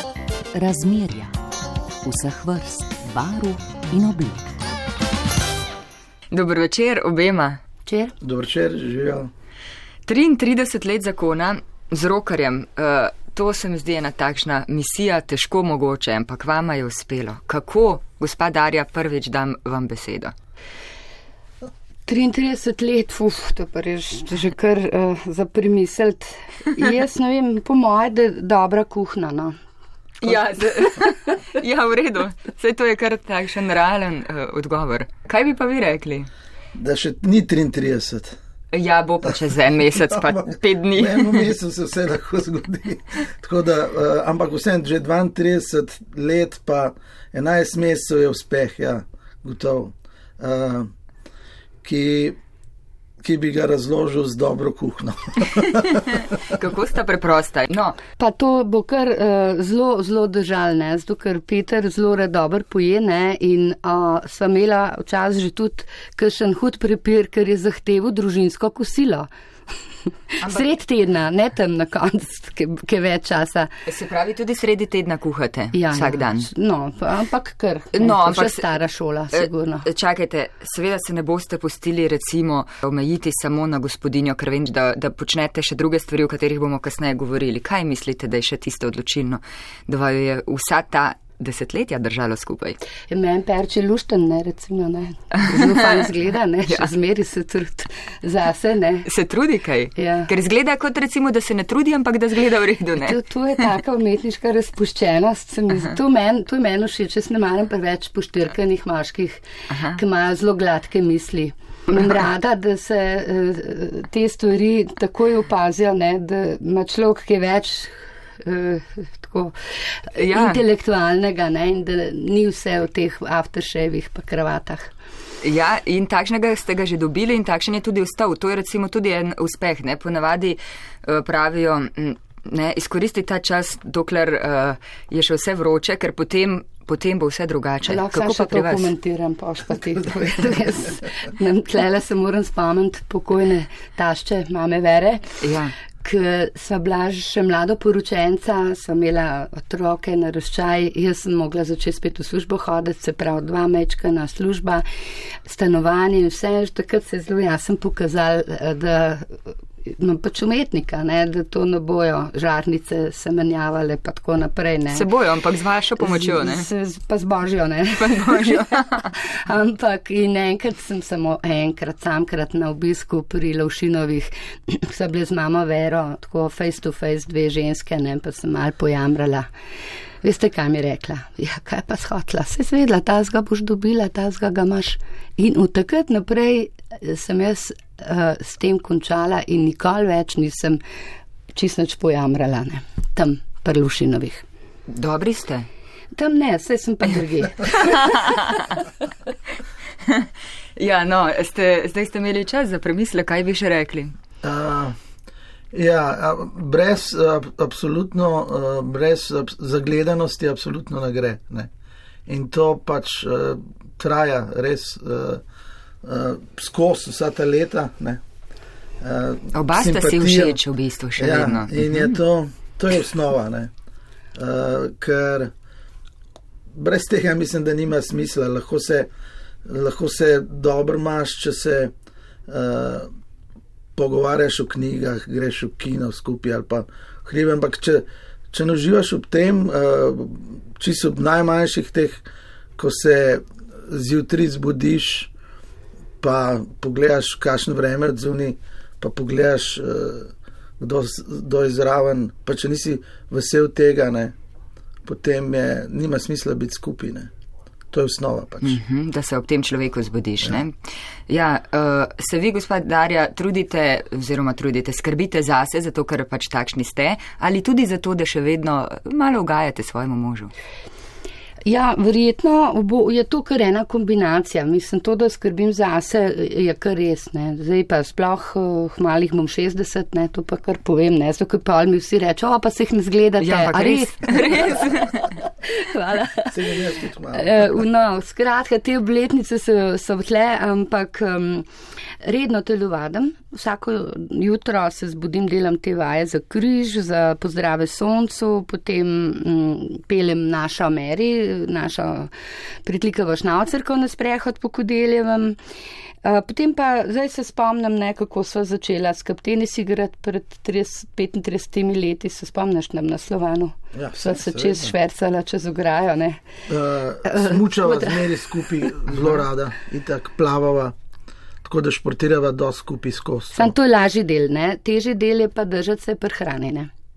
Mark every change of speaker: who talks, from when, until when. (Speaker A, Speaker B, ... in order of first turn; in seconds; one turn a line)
Speaker A: 0.5-1.4
Speaker A: 2.0-4.6
Speaker B: 6.3-7.6
Speaker C: 7.9-8.1
Speaker D: 8.2-9.3
Speaker B: 10.1-20.3
Speaker C: 22.1-29.6
Speaker B: 30.2-36.3
Speaker D: 36.7-38.4
Speaker B: 38.7-41.5
Speaker D: 40.0-50.9
Speaker D: 51.8-52.4
Speaker D: 53.2-56.3
Speaker B: 55.9-58.0
Speaker C: 58.2-69.3
Speaker C: 70.3-73.7
Speaker B: 70.4-70.7
Speaker B: 73.9-76.5
Speaker C: 75.7-79.9
Speaker B: 78.0-78.7
Speaker B: 79.3-92.8
Speaker C: 93.1-99.1
Speaker B: 95.4-96.1
Speaker B: 99.1-103.2
Speaker C: 100.0-100.3
Speaker C: 103.0-124.9
Speaker B: 109.7-110.0
Speaker B: 120.2-120.6
Speaker B: 125.4-138.9
Speaker C: 137.9-145.5
Speaker B: 145.4-145.7
Speaker C: 146.0-165.1
Speaker B: 164.9-166.7
Speaker C: 166.0-179.5
Speaker B: 168.0-169.1
Speaker C: 180.2-190.8
Speaker C: 191.6-194.4
Speaker B: 194.9-195.7
Speaker C: 196.2-198.3
Speaker B: 197.8-198.8
Speaker B: 200.0-204.2
Speaker D: 204.4-204.9
Speaker D: 205.7-211.7
Speaker D: 212.3-215.4
Speaker D: 216.0-218.2
Speaker D: 219.0-220.6
Speaker B: 219.6-222.1
Speaker D: 221.2-223.7
Speaker D: 224.3-225.5
Speaker D: 226.8-229.1
Speaker D: 229.7-231.9
Speaker D: 232.5-233.1
Speaker D: 234.0-242.2
Speaker D: 242.8-245.3
Speaker D: 246.2-254.3
Speaker D: 255.1-257.3
Speaker D: 257.9-258.8
Speaker B: 258.6-270.5
Speaker C: 271.7-284.9
Speaker B: 283.4-285.4
Speaker C: 285.6-286.8
Speaker D: 286.5-287.8
Speaker C: 287.3-291.7
Speaker C: 292.2-302.3
Speaker C: 302.9-305.6
Speaker C: 306.2-316.5
Speaker D: 313.9-314.9
Speaker D: 316.7-320.9
Speaker C: 317.3-318.2
Speaker D: 321.6-323.7
Speaker C: 323.5-326.9